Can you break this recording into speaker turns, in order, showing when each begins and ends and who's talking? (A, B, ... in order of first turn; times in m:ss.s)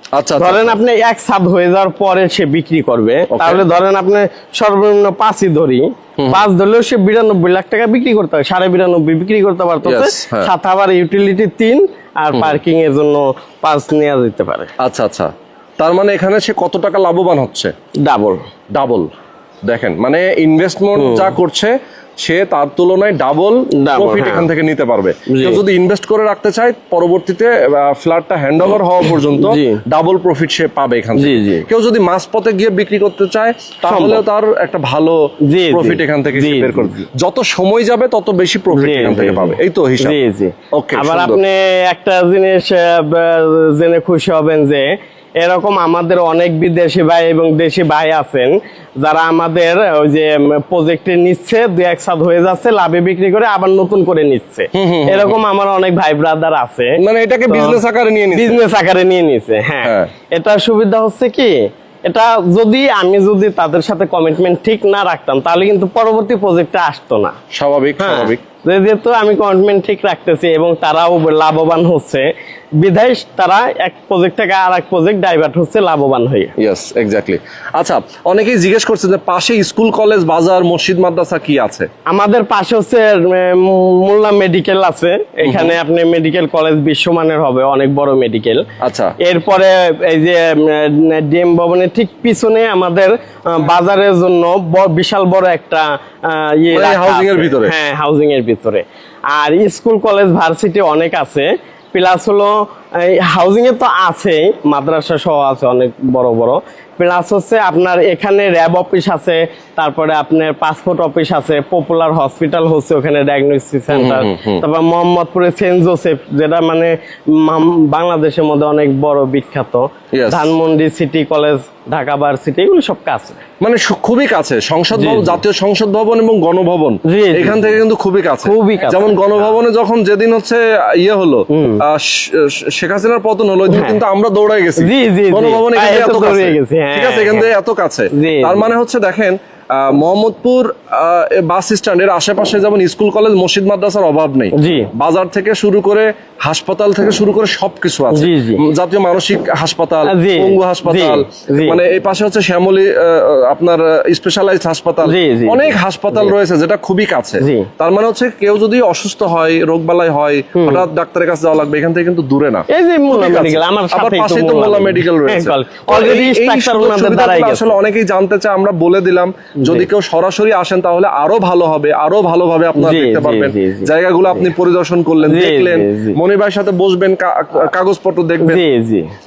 0:00.2-0:00.8 A
0:00.4-0:14.7 B
0:03.3-0:03.6 A
0:09.8-0:10.5 A
0:14.8-0:17.7 A
0:18.0-0:18.4 B
0:18.7-0:19.1 A
0:19.6-0:40.2 A
0:20.9-0:21.3 B
0:23.8-0:24.5 B
0:25.3-0:25.6 B
0:29.3-0:29.8 B
0:31.2-0:31.6 B
0:33.8-0:34.2 B
0:35.5-0:37.0 B
0:38.7-0:44.9 B
0:40.7-0:41.4 A
0:45.4-0:57.0 B
0:54.7-0:55.4 A
0:57.0-0:58.6 A
0:57.5-0:57.8 B
0:58.3-1:01.5 B
0:59.8-1:00.1 A
1:02.0-1:07.4 B
1:07.5-1:08.4 A
1:08.0-1:12.2 B
1:12.8-1:16.5 B
1:16.6-1:21.9 A
1:22.1-1:28.6 B
1:25.4-1:25.8 A
1:28.8-1:29.1 A
1:29.2-2:03.4 B
1:36.7-1:37.7 A
1:53.9-1:54.6 A
2:00.1-2:00.5 A
2:03.6-2:58.6 A
2:04.9-2:05.4 B
2:07.1-2:07.8 B
2:08.4-2:09.4 B
2:11.5-2:11.8 B
2:13.7-2:14.0 B
2:14.8-2:17.5 B
2:18.1-2:18.7 B
2:24.5-2:24.9 B
2:28.1-2:28.6 B
2:30.1-2:31.8 B
2:35.0-2:36.3 B
2:37.4-2:37.7 B
2:40.6-2:40.8 B
2:42.7-2:47.8 B
2:49.6-2:49.9 B
2:52.8-2:54.4 B
2:55.2-2:56.2 B
2:58.4-2:59.0 B